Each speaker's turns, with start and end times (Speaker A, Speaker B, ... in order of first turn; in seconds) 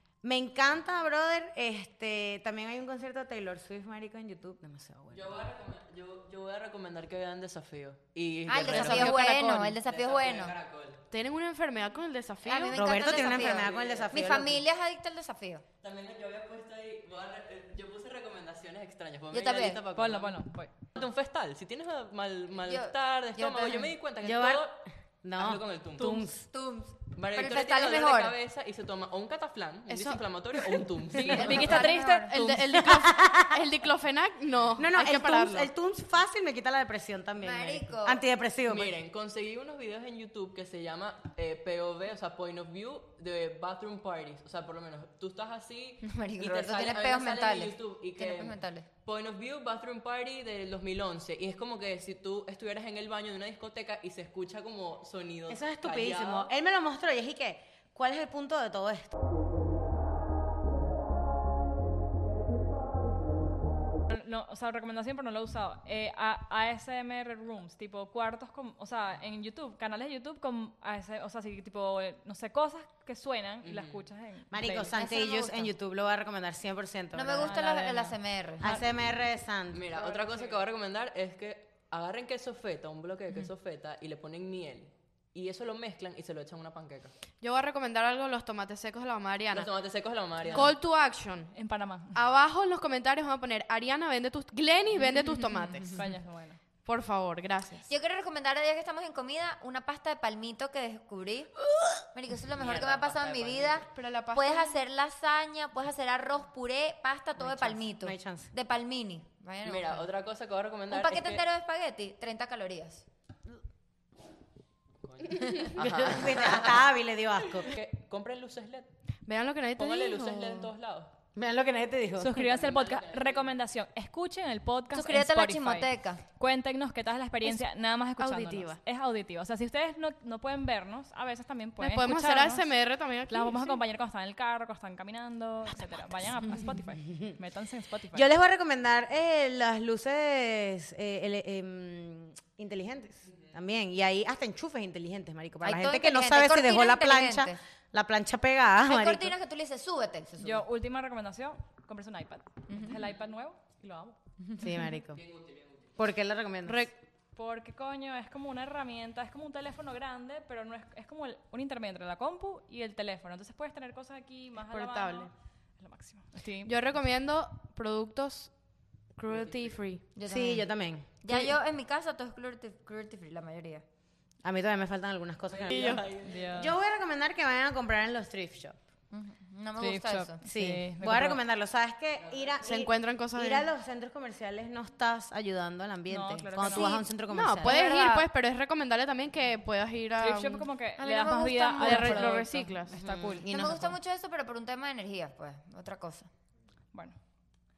Speaker A: 0.2-5.3, 12.8-14.6, 24.2-24.7, 25.2-26.5, 32.7-33.6, 34.8-39.0, 55.5-59.1, 74.5-77.6, 78.6-79.9, 107.4-108.5, 115.8-117.7, 121.3-122.3, 138.1-149.3, 154.6-155.2, 156.0-156.9, 170.3-171.5, 174.4-178.8, 180.4-187.8, 193.0-194.0
Speaker B: 5.1-9.2, 9.8-11.0, 13.5-14.2, 15.8-20.4, 20.9-24.8, 25.4-26.3, 27.1-32.0, 38.6-56.5, 73.6-74.1, 79.7-87.1, 89.5-90.8, 102.5-103.9, 109.6-111.4, 115.0-116.5, 117.6-118.9, 119.8-121.1, 122.4-123.5, 155.2-155.9, 169.2-169.8, 175.4-176.7, 182.2-182.6
Speaker C: 8.5-10.6, 12.4-15.6, 19.3-19.8, 22.6-23.9, 26.4-28.4, 31.2-32.4, 37.4-38.2, 46.0-48.9, 74.9-75.7, 77.1-78.8, 97.9-101.5, 102.1-110.1, 110.9-113.0, 124.9-126.2, 145.6-147.6, 148.8-150.6, 152.7-153.0, 154.4-154.9, 170.2-170.7, 171.2-173.8, 179.1-180.4, 186.7-187.1, 187.6-188.3, 191.0-192.4, 193.5-196.3
Speaker D: 8.6-9.8, 11.1-13.5, 29.9-30.8, 31.4-35.7, 87.4-89.7, 90.4-91.5, 92.2-96.0, 96.8-97.9, 103.9-104.8, 119.2-120.7, 128.2-128.8, 131.8-133.8, 156.7-156.9, 164.6-165.3, 166.6-168.5, 169.2-170.0, 175.7-176.0, 182.6-183.7, 187.3-190.7, 191.8-192.9
Speaker E: 19.9-20.7, 31.1-32.6, 64.1-74.9, 77.4-78.8, 91.5-92.2, 95.9-96.6, 122.2-132.7, 133.2-138.3, 150.4-154.2, 157.3-166.7, 175.9-176.8, 179.8-181.4, 186.1-187.0, 190.2-193.5, 196.9-197.2